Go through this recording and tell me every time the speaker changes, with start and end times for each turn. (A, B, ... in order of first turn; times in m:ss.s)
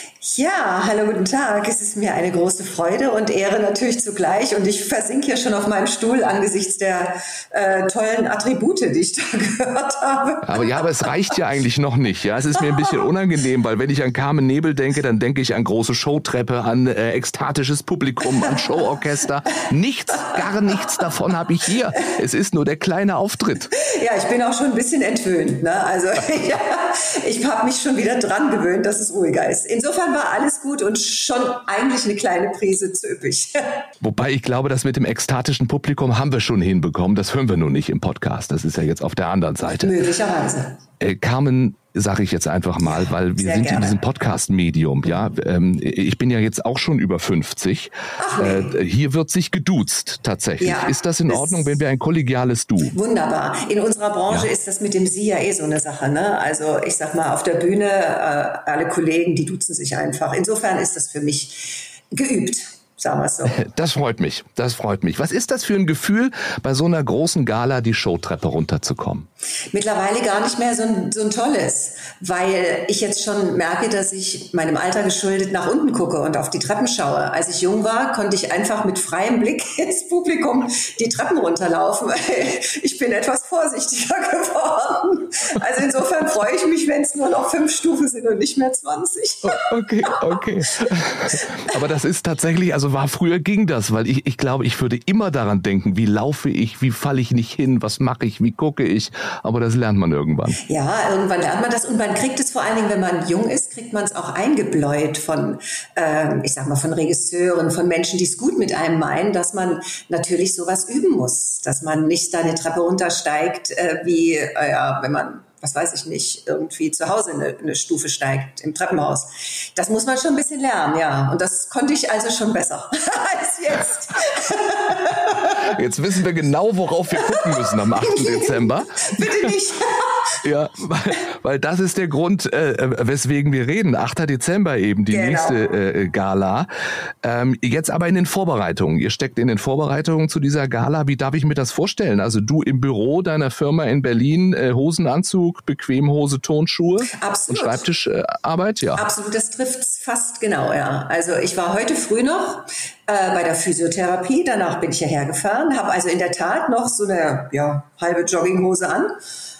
0:00.2-0:11.1 A
0:10.4-0:23.7 B
0:23.7-0:33.8 A
0:34.0-0:39.9 B
0:39.8-0:40.8 A
0:41.0-0:53.0 B
0:42.8-0:44.0 A
0:48.2-0:48.8 A
0:50.6-0:51.8 A
0:52.9-1:03.6 A
1:03.5-1:09.3 B
1:09.7-1:30.2 A
1:29.4-1:40.6 B
1:40.6-2:05.7 A
2:05.6-2:09.5 B
2:07.2-2:10.4 A
2:10.4-2:16.7 B
2:15.1-2:15.6 A
2:17.2-2:29.0 B
2:27.1-2:27.8 A
2:29.0-2:39.2 A